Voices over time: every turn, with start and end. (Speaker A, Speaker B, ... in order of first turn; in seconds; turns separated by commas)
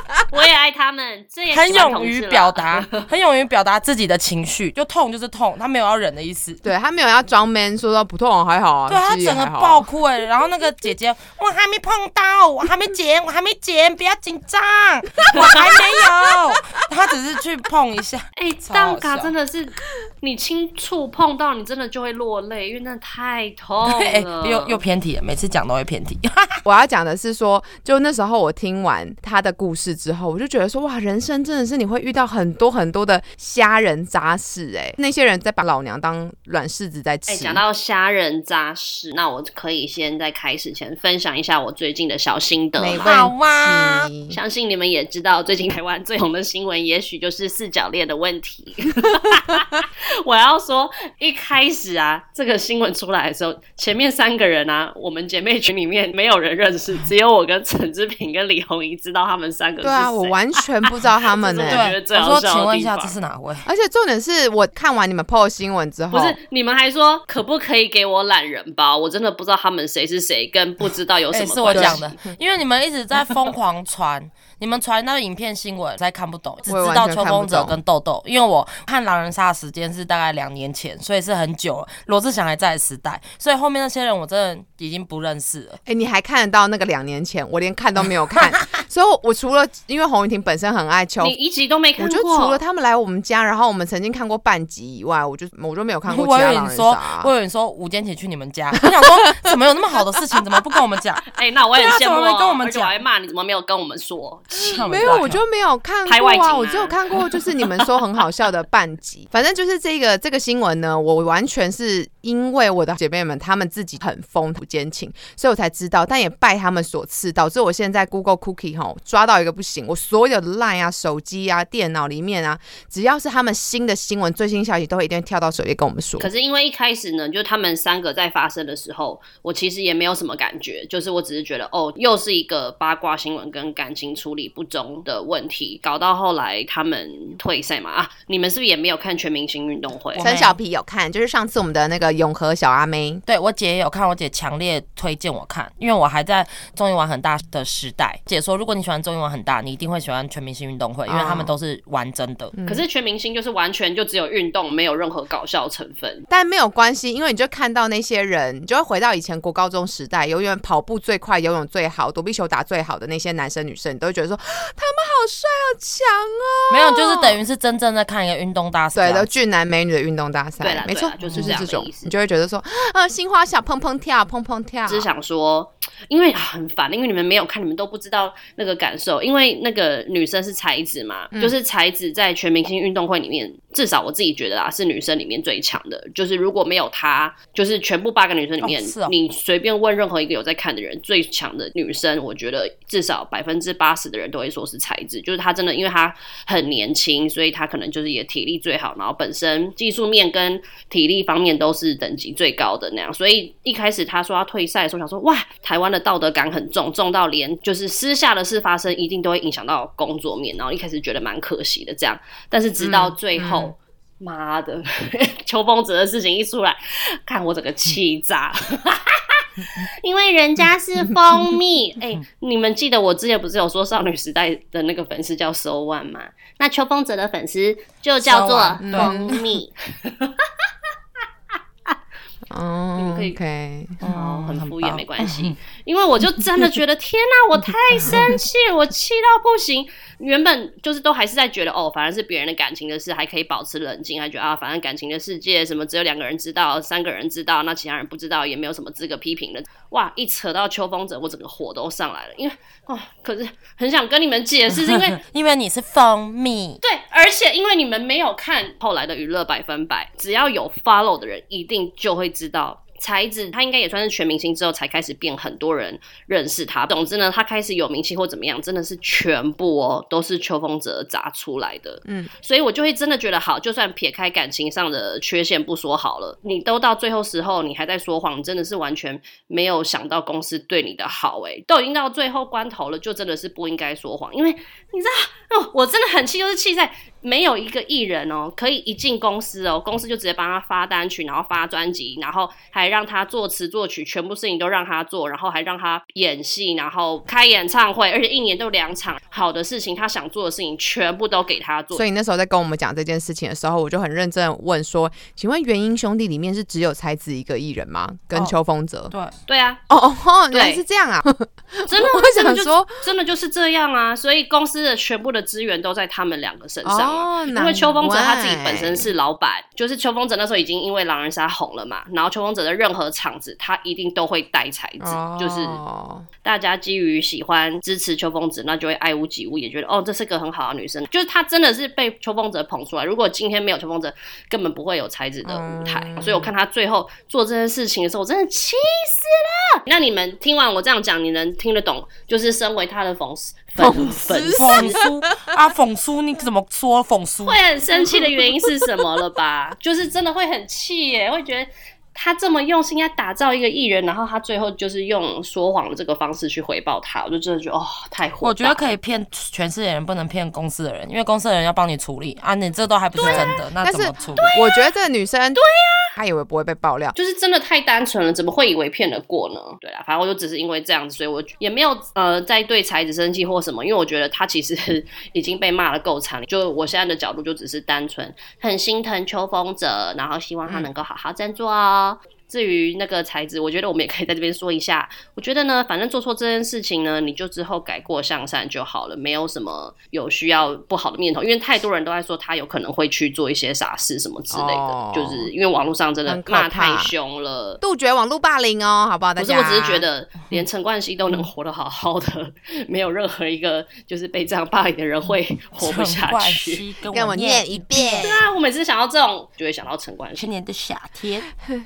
Speaker A: 0.3-3.1, Speaker B: 1.5-6.6, Speaker C: 6.6-9.9, Speaker B: 8.9-19.3, Speaker C: 15.5-16.0, Speaker A: 18.4-24.8, Speaker B: 23.8-26.6, Speaker C: 26.6-37.6, Speaker A: 37.3-43.2, Speaker C: 42.8-44.4, Speaker B: 43.0-44.1, Speaker A: 44.3-63.1, Speaker C: 59.8-61.9, Speaker B: 61.6-63.7, Speaker C: 63.6-66.4, Speaker A: 66.1-72.2, Speaker B: 71.3-85.8, Speaker C: 71.7-72.0, Speaker C: 76.7-77.8, Speaker C: 85.8-91.3, Speaker B: 88.3-88.8, Speaker A: 91.2-92.6, Speaker C: 92.0-97.3, Speaker B: 96.1-103.0, Speaker C: 98.8-99.4, Speaker A: 101.3-105.3, Speaker B: 104.6-105.4, Speaker C: 104.6-126.3, Speaker A: 106.0-107.8, Speaker A: 126.2-140.3, Speaker B: 140.1-140.6, Speaker C: 140.2-143.2, Speaker B: 143.3-152.5, Speaker C: 151.1-151.5, Speaker C: 152.6-152.8, Speaker A: 152.7-156.2, Speaker C: 156.3-167.4, Speaker B: 166.7-169.3, Speaker C: 168.9-175.1, Speaker A: 170.6-172.1, Speaker B: 171.2-171.6, Speaker A: 174.9-230.5, Speaker B: 188.6-189.1, Speaker C: 212.8-213.7, Speaker B: 228.2-229.2, Speaker C: 228.8-229.4, Speaker C: 232.5-234.0, Speaker A: 233.0-233.4, Speaker B: 234.0-235.5, Speaker A: 234.0-255.2, Speaker B: 254.7-256.8, Speaker A: 256.8-302.0, Speaker C: 272.0-272.3, Speaker C: 301.9-309.1, Speaker A: 309.5-309.8, Speaker C: 309.9-313.0, Speaker A: 310.5-310.8, Speaker A: 311.9-325.8, Speaker C: 316.8-319.1, Speaker C: 325.0-326.2, Speaker A: 326.4-345.0, Speaker C: 335.5-336.5, Speaker C: 343.8-345.5, Speaker B: 344.5-347.6, Speaker A: 347.4-358.9, Speaker C: 348.0-348.8, Speaker B: 358.4-364.5, Speaker C: 363.2-365.6, Speaker A: 363.2-363.5, Speaker A: 364.4-364.8, Speaker A: 365.6-366.1, Speaker C: 366.1-367.1, Speaker A: 367.1-397.8, Speaker C: 394.5-395.5, Speaker C: 396.3-397.1, Speaker C: 397.8-400.1, Speaker A: 399.4-406.8, Speaker B: 405.8-408.3, Speaker C: 407.1-408.4, Speaker A: 408.2-410.5, Speaker B: 410.4-411.5